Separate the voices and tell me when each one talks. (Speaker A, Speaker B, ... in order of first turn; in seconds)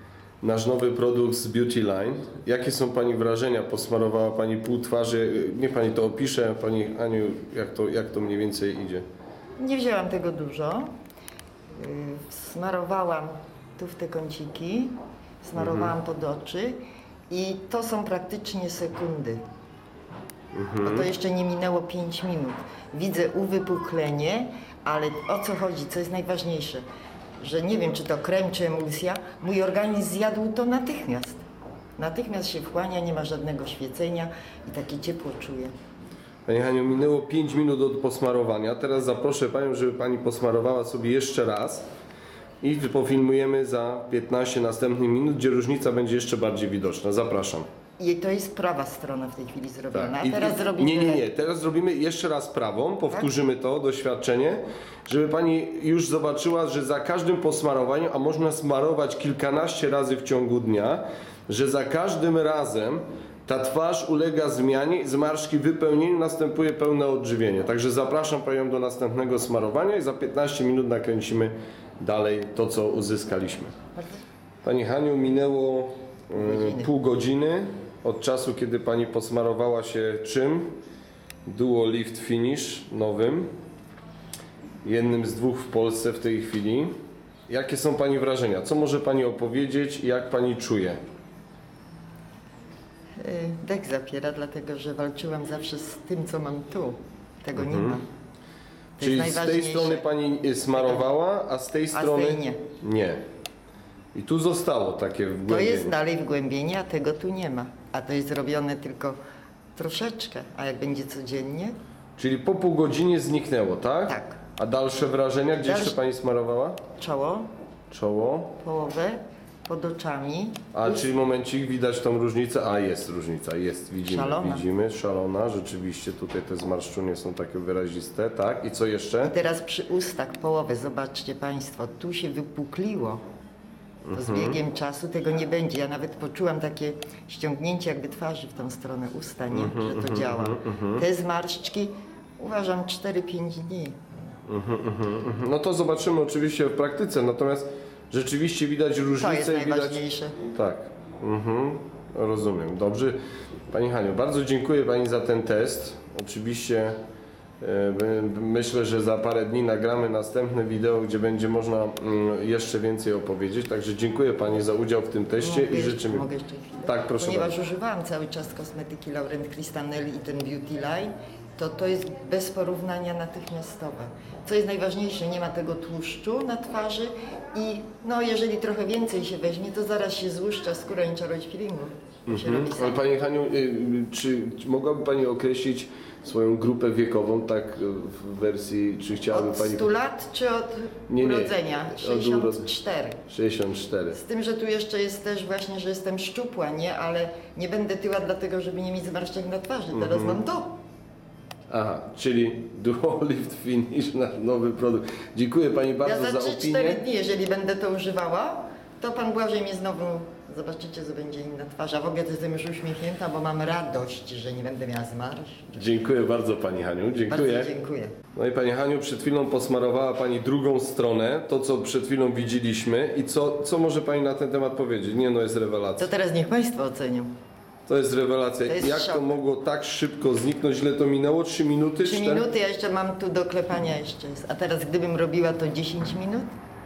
Speaker A: 0.4-9.0, 15.6-15.9, 20.5-21.1, 36.5-41.8, 42.6-47.6, 49.9-73.7, 74.6-80.7, 81.5-83.5, 84.8-86.9, 87.5-91.0, 97.5-98.0, 99.0-103.2, 104.1-105.9, 112.2-116.8, 117.9-118.6, 120.7-129.3, 134.0-134.6, 139.5-141.0, 144.5-153.2, 153.7-157.0, 157.6-166.2, 166.8-167.5, 182.3-189.9, 191.1-192.7, 193.3-194.2, 199.9-200.4, 201.7-207.0, 215.7-217.7, 218.3-226.1, 227.8-232.4
Speaker B: 9.6-10.9, 11.7-19.4, 20.8-26.8, 27.4-31.4, 32.0-35.7, 48.0-51.2, 74.0-74.2, 76.3-76.9, 93.2-98.0, 99.0-100.0, 100.7-101.1, 101.9-102.6, 105.5-109.2, 109.8-111.8, 114.1-114.4, 115.6-116.0, 117.0-117.5, 118.6-121.0, 124.0-124.6, 129.2-133.2, 134.1-144.0, 149.2-150.4, 165.4-183.0, 189.3-193.2, 194.1-200.8, 206.0-215.9, 217.3-218.2, 226.0-227.3, 228.6-229.3, 232.0-236.5